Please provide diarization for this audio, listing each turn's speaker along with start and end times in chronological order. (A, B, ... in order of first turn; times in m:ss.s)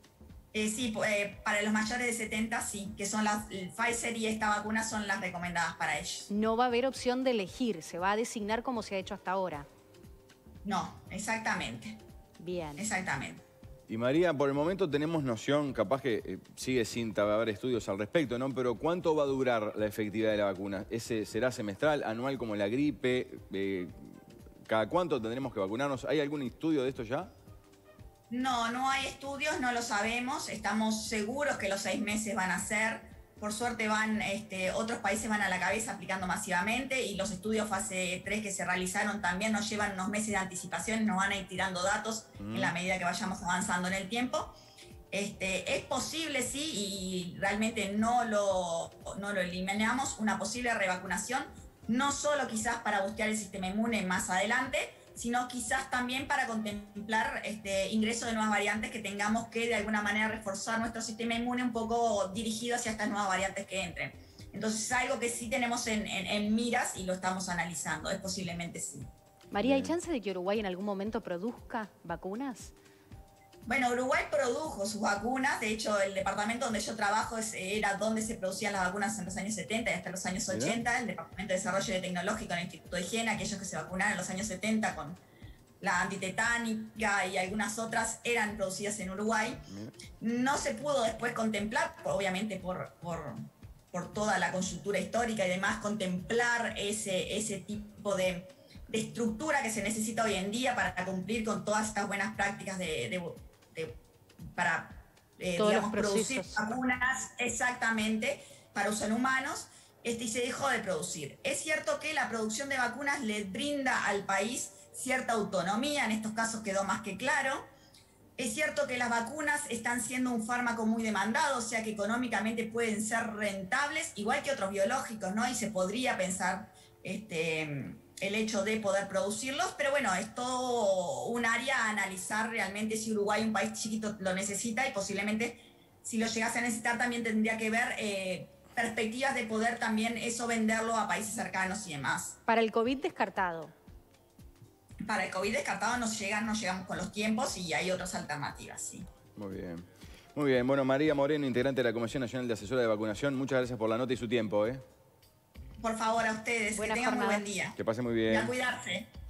0:00.5-0:06.3 A
0:06.3-0:09.7 B
0:10.6-0:12.0 A
0:12.4-0:12.8 B
0:12.8-0:13.4 A
0:13.9-0:23.9 C
0:24.7-0:27.3 C
0:28.3-0:44.6 A
0:42.4-0:42.7 C
0:45.1-1:09.1 A
1:09.5-1:12.7 B
1:09.6-1:09.9 C
1:13.7-1:25.2 A
1:20.5-1:20.8 C
1:25.8-1:29.6 A
1:29.7-1:30.0 C
1:30.2-1:44.0 A
1:44.6-1:57.7 A
1:45.6-1:46.6 B
1:58.4-2:22.4 A
2:22.5-2:23.7 B
2:25.1-2:29.1 A
2:29.4-2:34.8 C
2:35.8-2:39.1 A
2:36.8-2:37.5 B
2:37.8-2:38.5 C